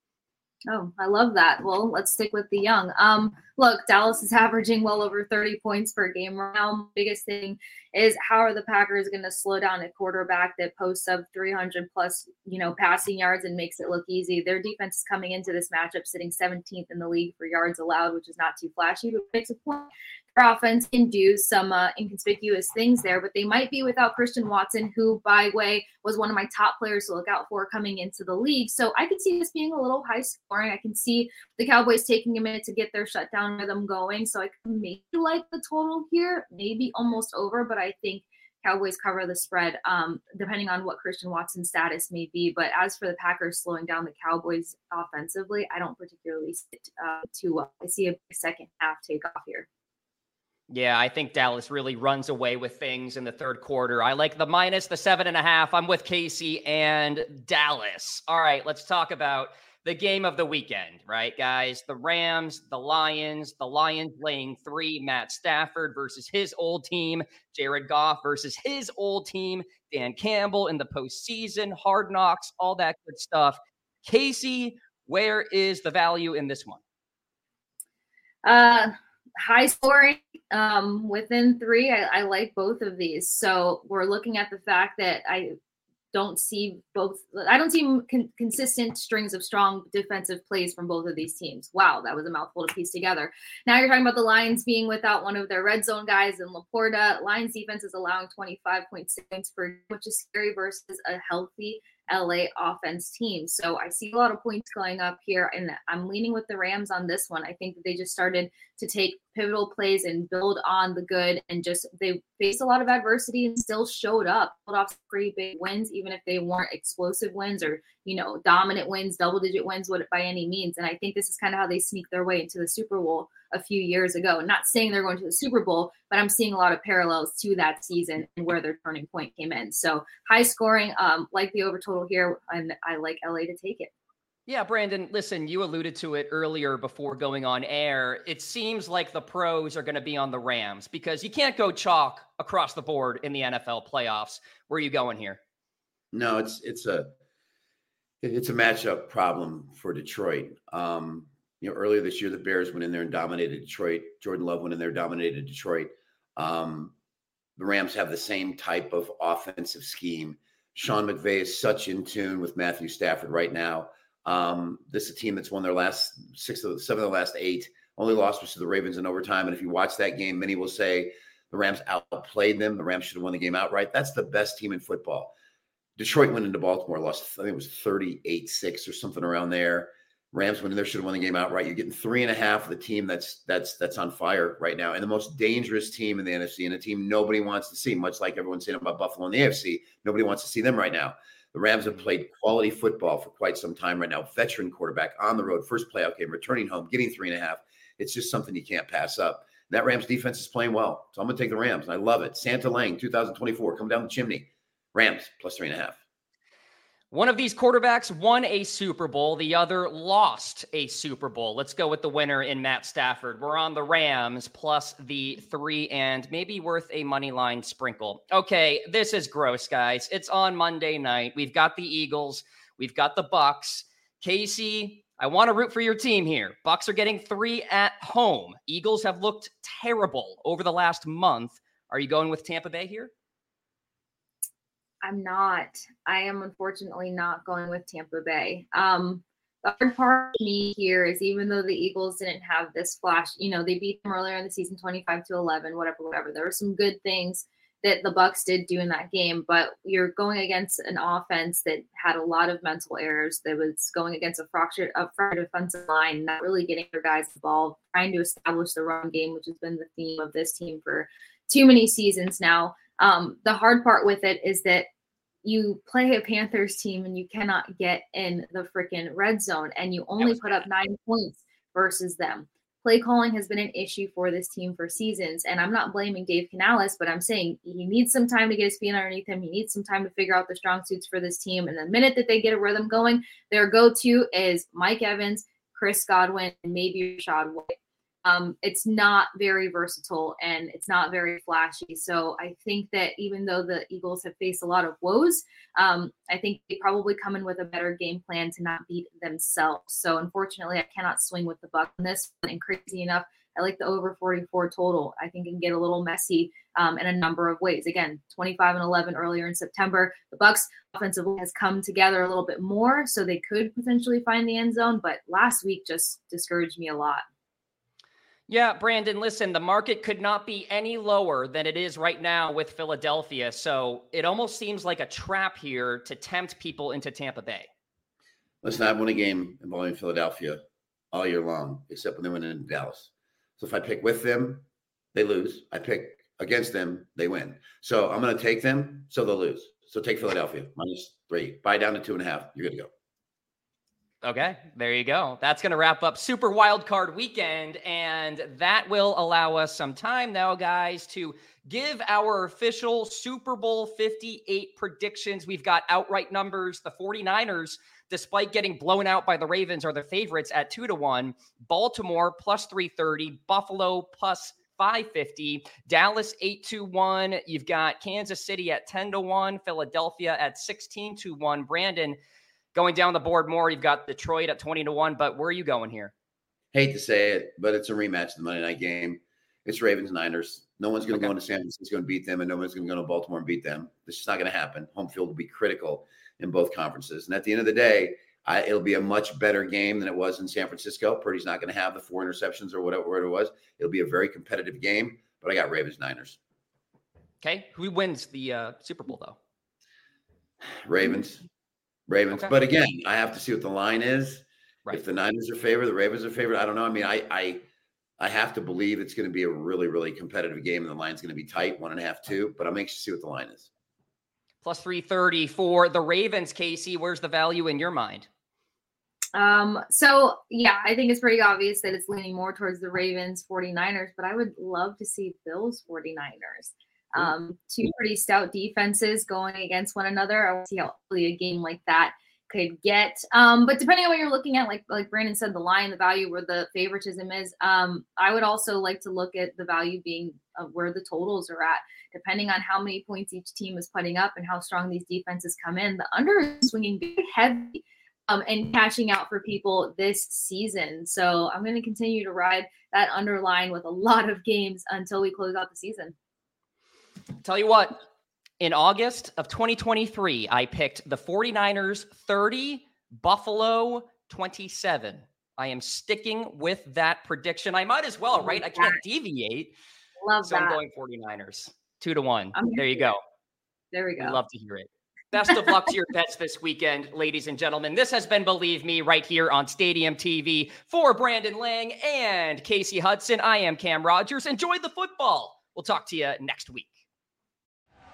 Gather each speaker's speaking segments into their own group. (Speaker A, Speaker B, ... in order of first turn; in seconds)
Speaker A: 0.7-49.7, 78.5-85.5, 86.1-133.9, 235.0-264.9, 265.4-317.2, 419.4-456.1, 468.4-469.0, 470.2-470.8, 472.5-473.1, 473.9-474.4
Speaker B: 50.7-76.8, 134.5-145.4, 207.1-233.1, 270.2-270.6, 318.5-327.7, 344.2-372.2, 372.7-376.1, 397.4-399.4, 414.6-418.3, 457.4-458.0, 458.6-469.7, 470.4-473.2, 474.2-487.0
Speaker C: 146.1-147.1, 148.2-156.9, 157.6-175.3, 176.0-206.0, 328.6-330.6, 331.1-342.9, 376.7-396.4, 400.6-401.4, 402.1-407.6, 408.2-413.7